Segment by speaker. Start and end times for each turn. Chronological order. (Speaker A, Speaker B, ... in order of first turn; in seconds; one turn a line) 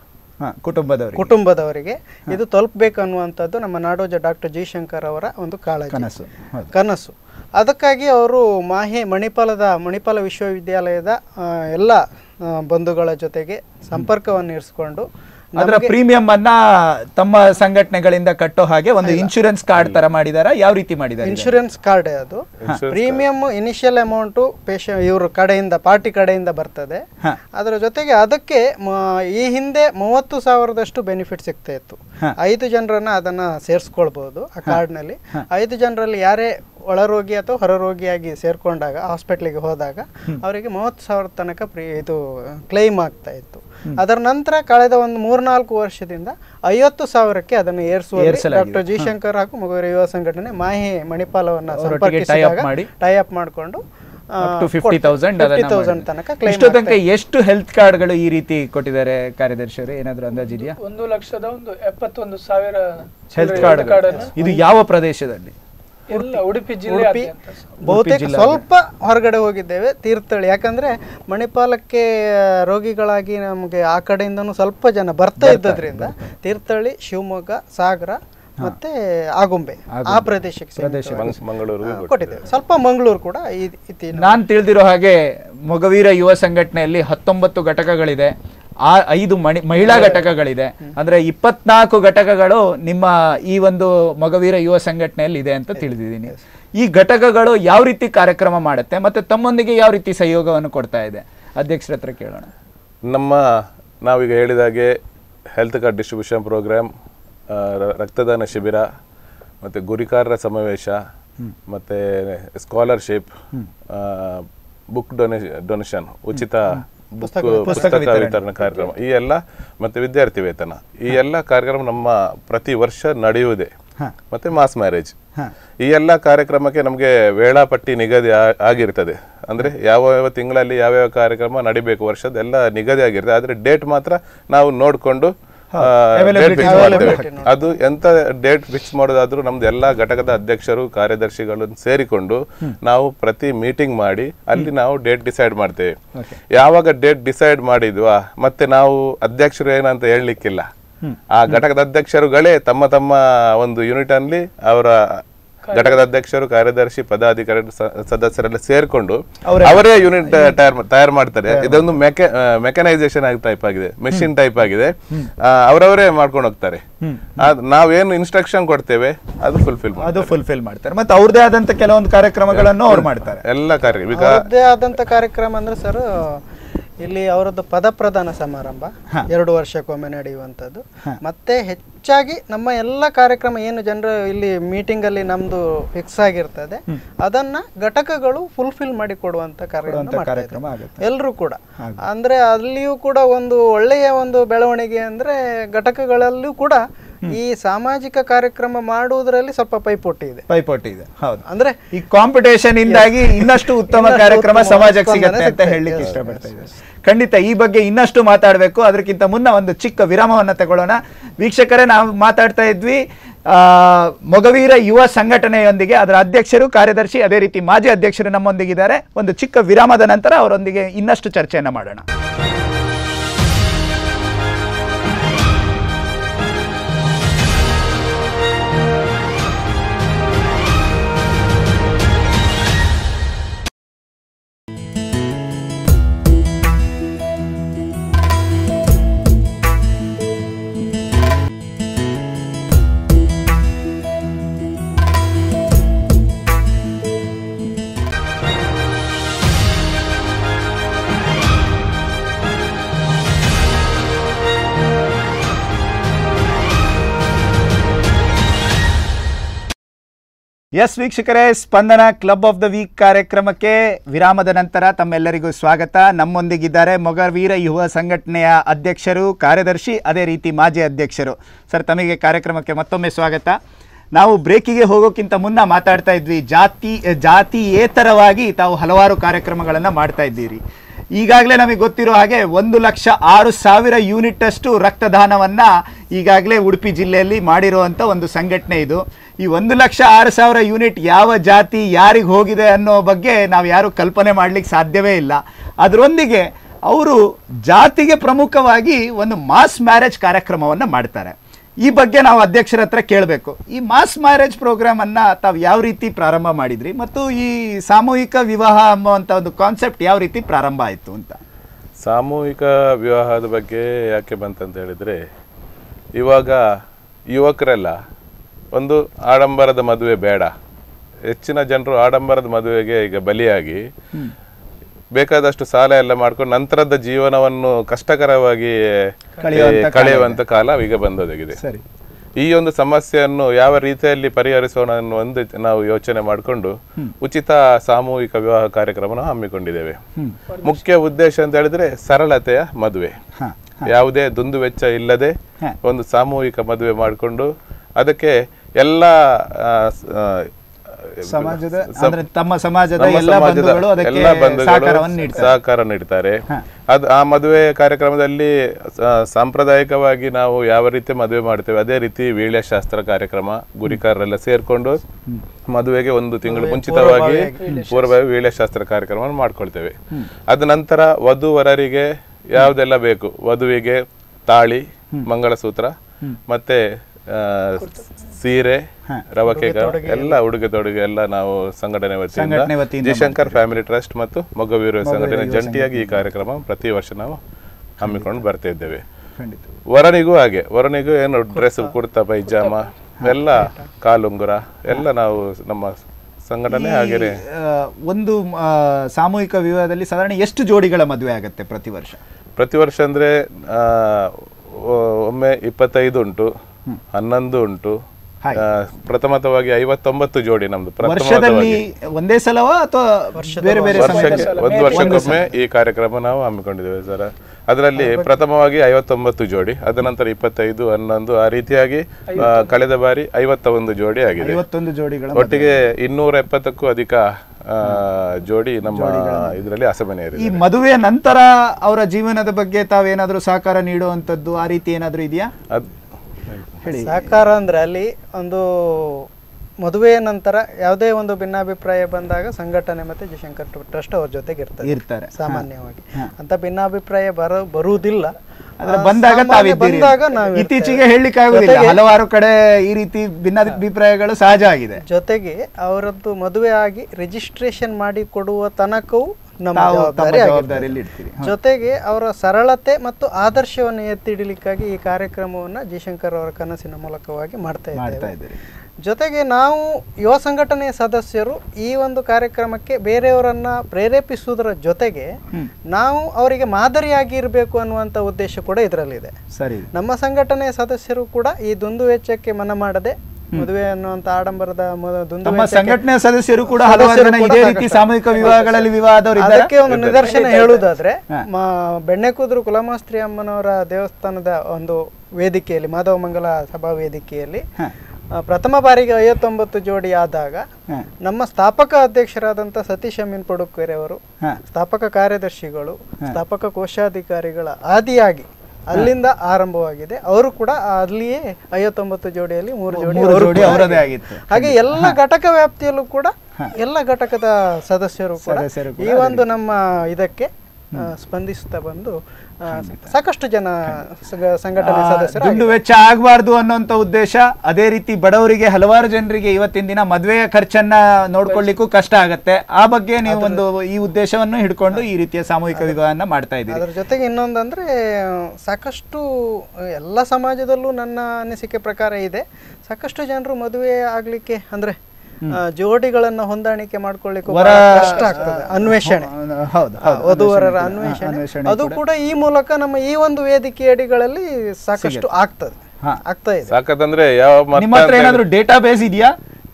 Speaker A: 0.4-1.3
Speaker B: 1.1-6.1
Speaker A: 5.9-6.7
Speaker B: 6.7-15.9
Speaker A: 15.6-21.5
Speaker B: 19.0-19.3
Speaker B: 21.2-57.0
Speaker C: 22.6-23.2
Speaker A: 48.1-49.1
Speaker A: 51.7-52.9
Speaker A: 54.4-60.8
Speaker D: 60.3-64.3
Speaker A: 63.3-65.5
Speaker B: 63.5-64.6
Speaker D: 66.1-67.7
Speaker B: 66.1-67.3
Speaker B: 67.8-84.3
Speaker A: 67.8-68.6
Speaker A: 75.4-76.3
Speaker A: 79.9-81.4
Speaker C: 81.2-82.4
Speaker A: 84.2-88.3
Speaker A: 88.8-102.5
Speaker B: 89.8-90.2
Speaker C: 103.1-105.0
Speaker C: 105.5-106.9
Speaker C: 107.5-108.8
Speaker C: 109.6-111.0
Speaker C: 111.7-113.3
Speaker C: 113.9-123.7
Speaker B: 117.2-118.0
Speaker A: 117.7-118.4
Speaker C: 124.3-125.2
Speaker C: 125.8-145.9
Speaker A: 135.7-137.2
Speaker B: 136.5-137.7
Speaker C: 146.5-150.7
Speaker A: 151.0-151.6
Speaker C: 151.3-166.8
Speaker D: 155.7-156.0
Speaker A: 159.4-160.6
Speaker A: 161.5-161.9
Speaker A: 167.0-167.4
Speaker C: 167.4-170.3
Speaker A: 170.0-173.4
Speaker C: 172.5-174.4
Speaker B: 174.1-176.4
Speaker B: 177.0-200.4
Speaker A: 189.9-191.0
Speaker A: 200.5-222.1
Speaker B: 201.4-201.8
Speaker B: 202.9-206.7
Speaker A: 260.7-273.6
Speaker A: 274.1-280.6
Speaker A: 281.1-311.4
Speaker C: 312.0-315.2
Speaker C: 316.2-316.7
Speaker C: 317.3-318.0
Speaker C: 318.7-320.5
Speaker C: 321.3-323.9
Speaker C: 325.1-331.6
Speaker A: 329.4-330.4
Speaker A: 331.6-331.8
Speaker C: 332.4-340.0
Speaker D: 340.5-340.8
Speaker C: 340.6-343.1
Speaker A: 343.4-343.9
Speaker C: 343.8-352.2
Speaker A: 351.2-355.6
Speaker C: 353.0-365.0
Speaker C: 365.7-370.0
Speaker B: 366.4-367.6
Speaker D: 367.6-368.2
Speaker C: 370.5-375.9
Speaker C: 376.5-387.4
Speaker D: 377.8-378.1
Speaker B: 379.4-380.4
Speaker A: 382.3-383.6
Speaker A: 385.0-386.2
Speaker C: 388.0-389.0
Speaker A: 388.0-388.3
Speaker A: 389.4-389.7
Speaker C: 389.9-397.4
Speaker A: 396.7-402.2
Speaker C: 402.6-406.5
Speaker C: 407.1-408.0
Speaker C: 408.5-411.8
Speaker A: 411.0-415.5
Speaker B: 413.3-414.5
Speaker D: 413.9-415.4
Speaker C: 413.9-424.6
Speaker B: 417.9-418.3
Speaker D: 422.3-422.7
Speaker A: 424.4-425.9
Speaker C: 425.3-430.6
Speaker A: 428.9-429.6
Speaker A: 430.3-435.5
Speaker A: 436.8-437.5
Speaker B: 436.9-439.3
Speaker B: 439.8-448.3
Speaker A: 444.8-446.3
Speaker A: 448.8-455.0
Speaker B: 448.9-452.0
Speaker B: 455.0-468.3
Speaker A: 459.7-461.5
Speaker A: 467.9-468.6
Speaker B: 469.0-479.4
Speaker A: 479.5-479.9
Speaker B: 479.9-486.0
Speaker A: 485.4-489.7
Speaker B: 486.7-497.6
Speaker C: 489.9-490.2
Speaker D: 490.2-490.9
Speaker B: 498.3-500.7
Speaker B: 501.2-525.8
Speaker A: 512.9-515.2
Speaker A: 518.4-519.4
Speaker A: 522.7-523.1
Speaker A: 524.8-536.8
Speaker B: 533.2-533.6
Speaker B: 536.7-545.0
Speaker B: 545.5-549.3
Speaker A: 547.5-552.0
Speaker B: 550.0-556.7
Speaker A: 555.0-555.3
Speaker C: 556.7-558.4
Speaker A: 557.8-559.3